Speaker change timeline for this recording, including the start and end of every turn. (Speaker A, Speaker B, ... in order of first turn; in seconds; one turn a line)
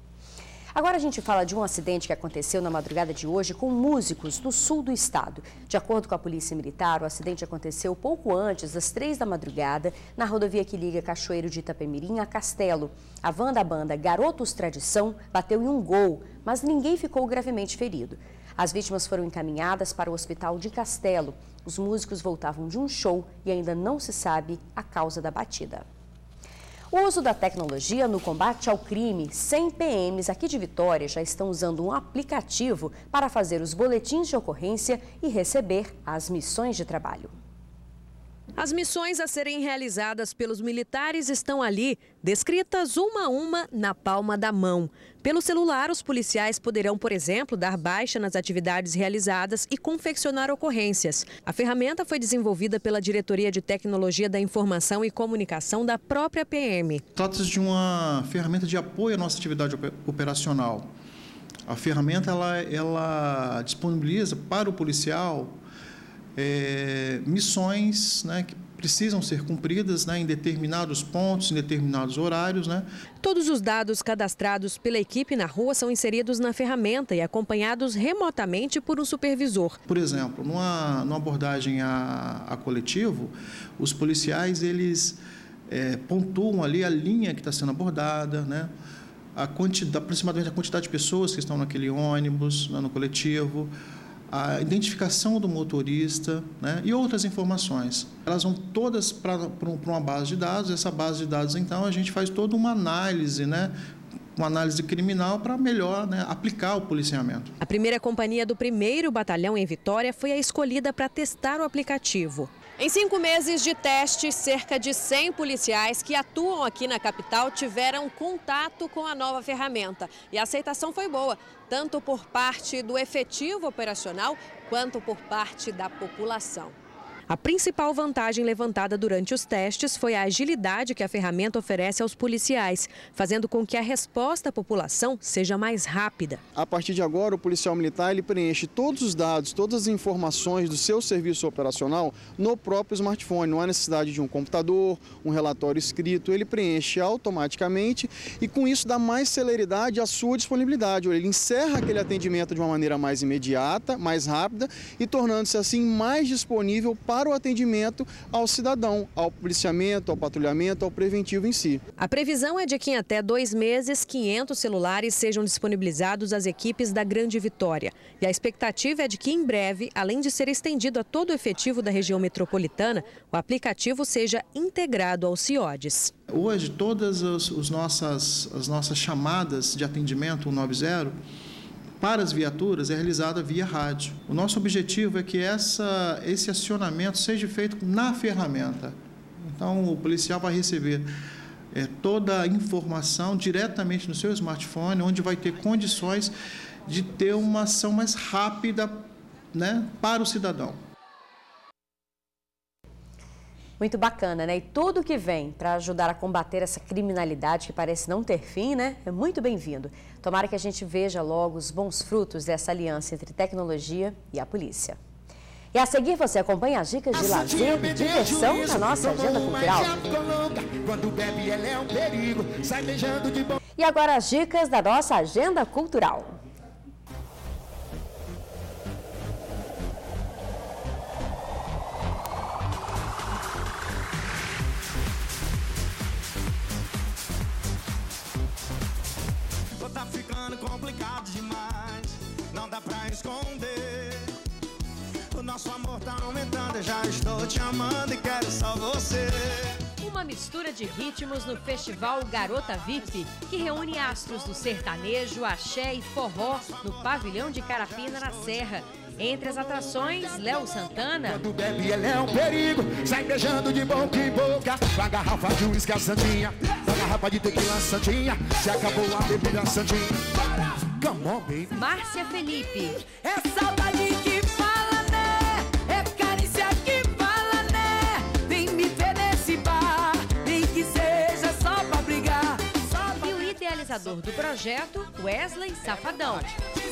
Speaker A: 0.8-25.8
Speaker A: 26.9-37.3
Speaker B: 38.6-57.0
Speaker C: 57.1-60.9
Speaker C: 61.7-65.6
Speaker C: 66.4-72.8
Speaker B: 73.2-79.8
Speaker C: 79.9-88.7
Speaker C: 89.4-93.7
Speaker C: 94.3-103.7
Speaker C: 104.4-107.5
Speaker B: 107.6-126.8
Speaker B: 127.3-136.4
Speaker D: 136.6-161.8
Speaker B: 162.0-176.1
Speaker C: 176.3-181.1
Speaker C: 182.0-191.1
Speaker C: 191.7-196.3
Speaker C: 196.9-200.8
Speaker A: 203.8-215.0
Speaker A: 215.7-220.0
Speaker E: 217.1-223.6
Speaker A: 223.8-226.4
Speaker D: 239.8-242.1
Speaker D: 243.1-244.2
Speaker D: 245.4-249.7
Speaker A: 250.0-261.4
Speaker E: 261.3-271.7
Speaker A: 271.7-273.0
Speaker A: 283.1-286.6